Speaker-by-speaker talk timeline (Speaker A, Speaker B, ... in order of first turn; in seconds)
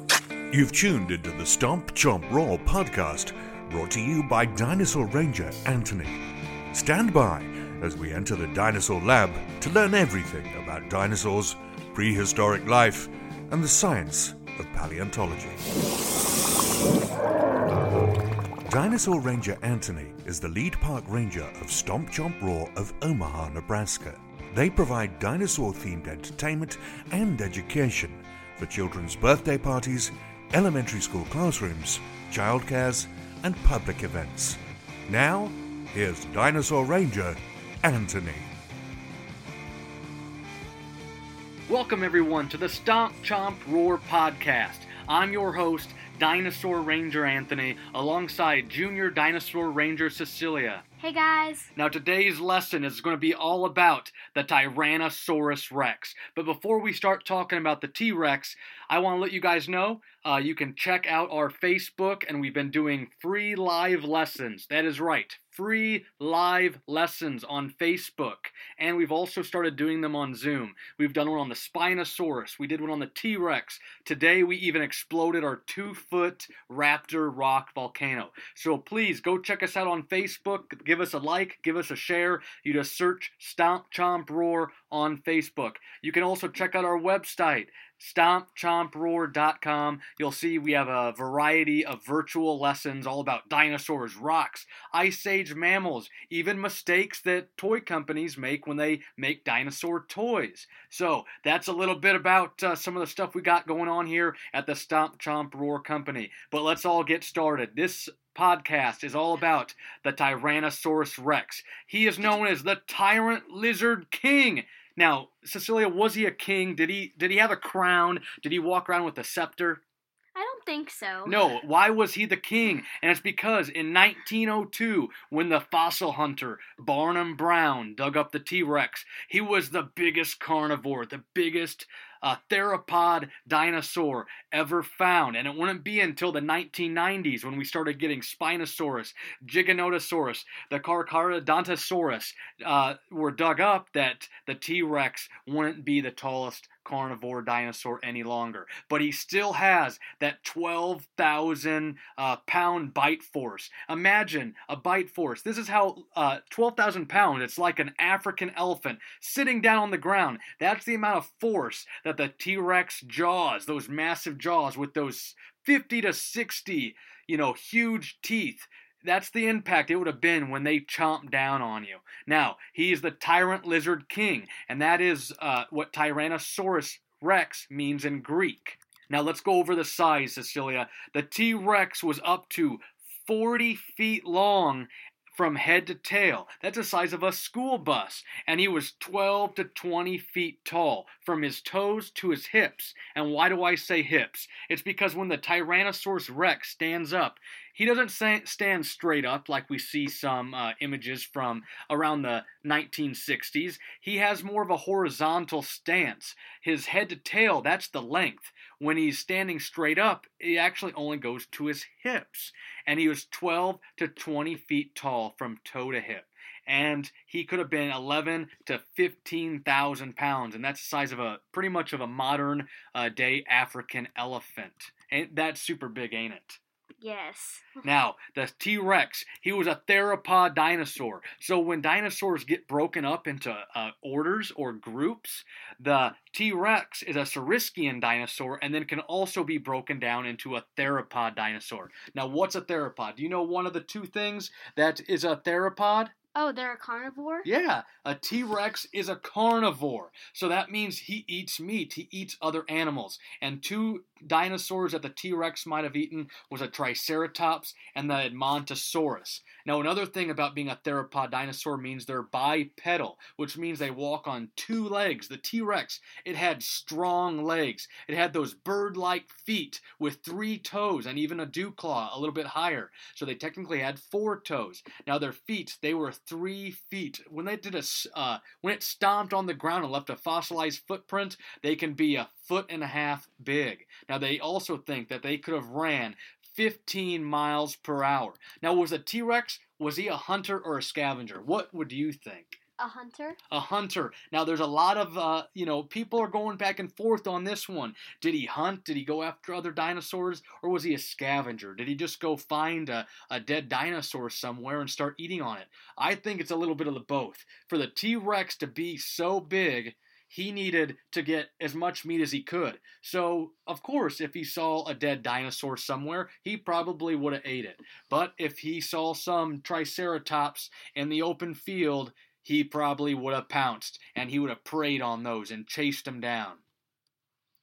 Speaker A: 0.5-15.6, 18.7-38.5
Speaker B: 41.7-50.9, 51.8-119.8, 121.3-226.6, 227.8-246.1, 247.4-292.6, 293.5-326.6
Speaker C: 51.0-51.7, 120.3-121.4, 227.0-227.8, 246.4-247.5, 292.8-293.4